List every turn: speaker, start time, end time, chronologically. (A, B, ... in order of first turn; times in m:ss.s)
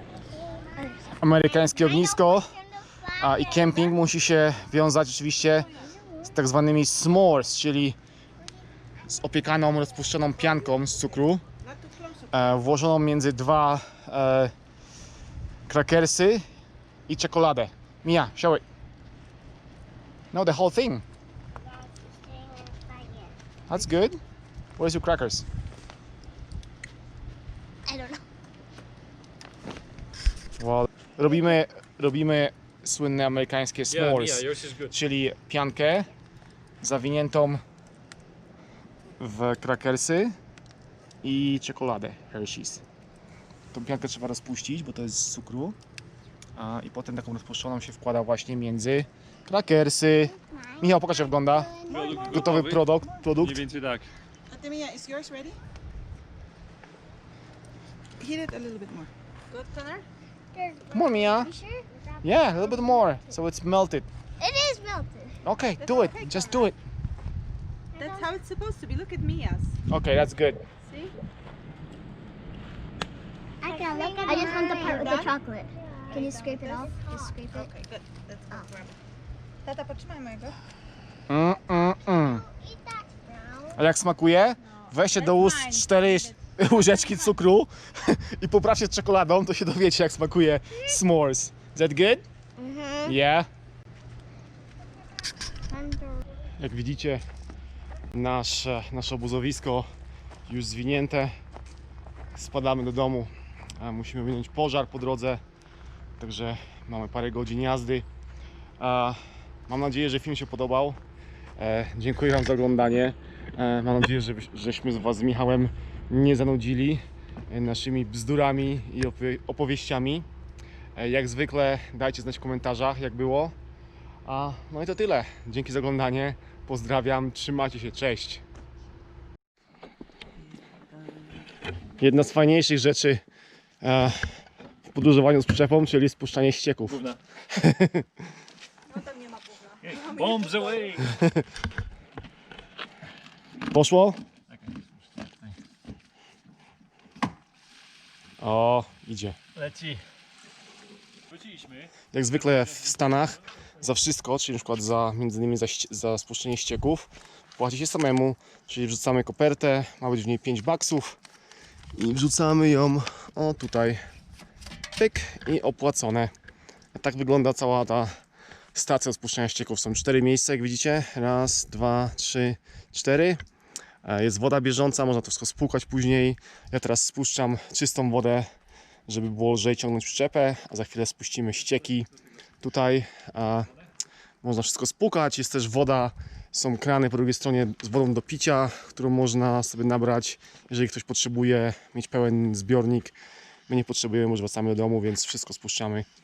0:00.7-0:03.9 A
0:01.2-0:02.6 B
0:03.2-0:05.7 B
0:06.2-0:08.0 B
0:09.1-0:11.4 B
0:11.6-0:12.3 C
0:12.3-0:14.5 B
0:15.7-0:16.5 B
0:17.1-0:18.6 B
0:20.3-0:21.0 B
0:21.7-0:23.4 A
0:23.7-0:24.2 B
0:24.8-0:25.4 B
0:27.9-0:28.2 A
0:30.6-0:36.1 B
0:33.9-0:35.0 D
0:36.8-0:37.6 B
0:39.2-0:40.4 B
0:41.2-0:42.8 B
0:43.7-0:45.8 B
0:46.6-0:51.7 B
0:50.3-0:52.2 A
0:51.9-0:52.6 C
0:51.9-0:54.1 D
0:52.2-0:53.6 B
0:54.5-0:55.6 C
0:58.2-1:00.0 C
1:00.5-1:03.3 A
1:00.9-1:01.5 B
1:02.2-1:04.1 B
1:04.4-1:05.4 A
1:05.4-1:06.8 B
1:05.8-1:06.7 C
1:08.0-1:08.3 A
1:08.0-1:09.8 C
1:09.9-1:10.6 B
1:10.8-1:11.2 C
1:13.6-1:17.7 A
1:13.6-1:15.4 C
1:16.1-1:19.0 C
1:19.6-1:20.6 C
1:21.3-1:22.4 B
1:22.3-1:23.8 A
1:23.8-1:32.2 B
1:24.7-1:27.3 C
1:32.6-1:33.2 A
1:33.0-1:33.5 B
1:35.7-1:36.2 A
1:36.6-1:37.2 B
1:38.1-1:39.9 B
1:40.5-1:41.4 B
1:42.4-1:45.4 B
1:46.2-1:48.1 B
1:48.8-1:51.0 B
1:51.6-2:00.3 B
2:01.0-2:03.6 B
2:04.2-2:08.4 B
2:12.0-2:13.2 B
2:13.8-2:17.0 B
2:16.9-2:17.2 D
2:17.5-2:18.1 B
2:18.9-2:21.0 C
2:19.8-2:21.1 D
2:23.7-2:24.2 B
2:24.5-2:24.8 D
2:28.4-2:29.4 B
2:29.6-2:30.0 D
2:31.3-2:31.9 D
2:32.1-2:41.2 B
2:41.9-2:44.0 B
2:45.0-2:46.3 B
2:46.9-2:48.2 B
2:48.8-2:53.4 B
2:54.0-2:58.5 B
2:59.1-3:02.1 B
3:02.6-3:03.7 B
3:04.4-3:13.1 B
3:13.7-3:16.1 B